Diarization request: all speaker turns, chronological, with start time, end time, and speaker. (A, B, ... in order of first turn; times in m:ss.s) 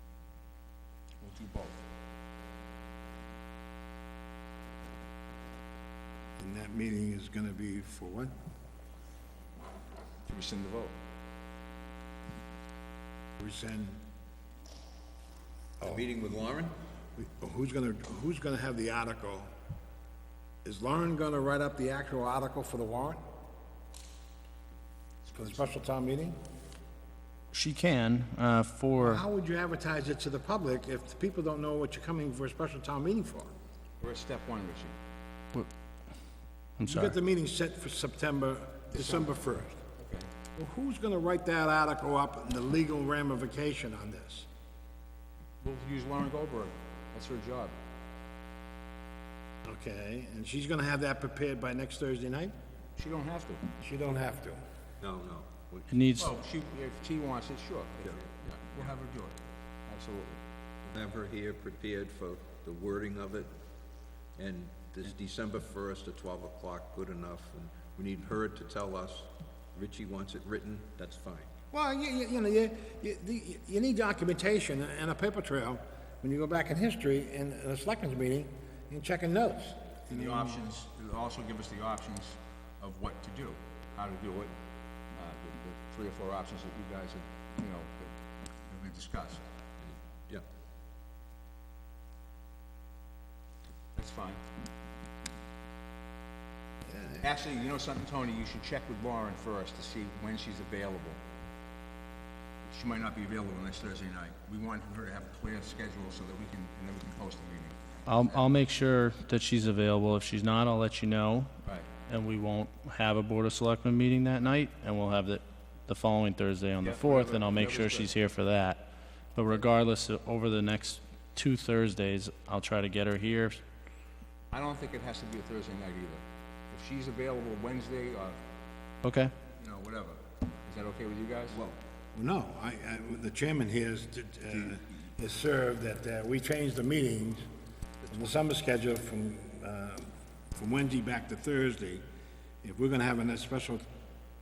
0:01.2-0:01.8 A
0:06.4-0:08.3 B
0:10.2-0:11.0 A
0:13.4-0:14.0 B
0:15.8-0:16.1 B
0:15.8-0:16.8 C
0:17.2-0:19.5 B
0:20.6-0:23.2 B
0:25.3-0:26.4 B
0:27.5-0:29.2 D
0:29.0-0:33.5 B
0:34.0-0:35.0 A
0:36.8-0:37.1 D
0:36.8-0:39.8 B
0:38.9-0:39.3 A
0:40.0-0:40.3 A
0:40.6-0:44.4 B
0:45.6-0:47.8 A
0:49.6-0:52.5 B
0:53.0-0:53.6 A
0:53.8-0:54.6 B
0:55.0-0:55.9 C
0:55.9-0:56.3 D
0:56.2-1:00.4 A
1:00.8-1:03.5 C
1:04.4-1:11.5 C
1:11.7-1:20.5 B
1:20.1-1:24.5 A
1:25.1-1:28.1 A
1:28.6-1:29.4 A
1:29.8-1:30.4 C
1:34.0-1:34.4 A
1:36.9-1:37.3 B
1:37.2-1:41.2 A
1:42.6-1:47.8 A
1:48.0-1:51.5 D
1:52.1-1:58.8 D
1:56.8-1:58.1 A
1:59.3-2:03.6 D
2:04.5-2:08.4 A
2:09.0-2:09.3 D
2:09.6-2:11.6 A
2:11.5-2:11.8 C
2:12.1-2:17.4 B
2:18.1-2:22.0 B
2:22.6-2:23.8 B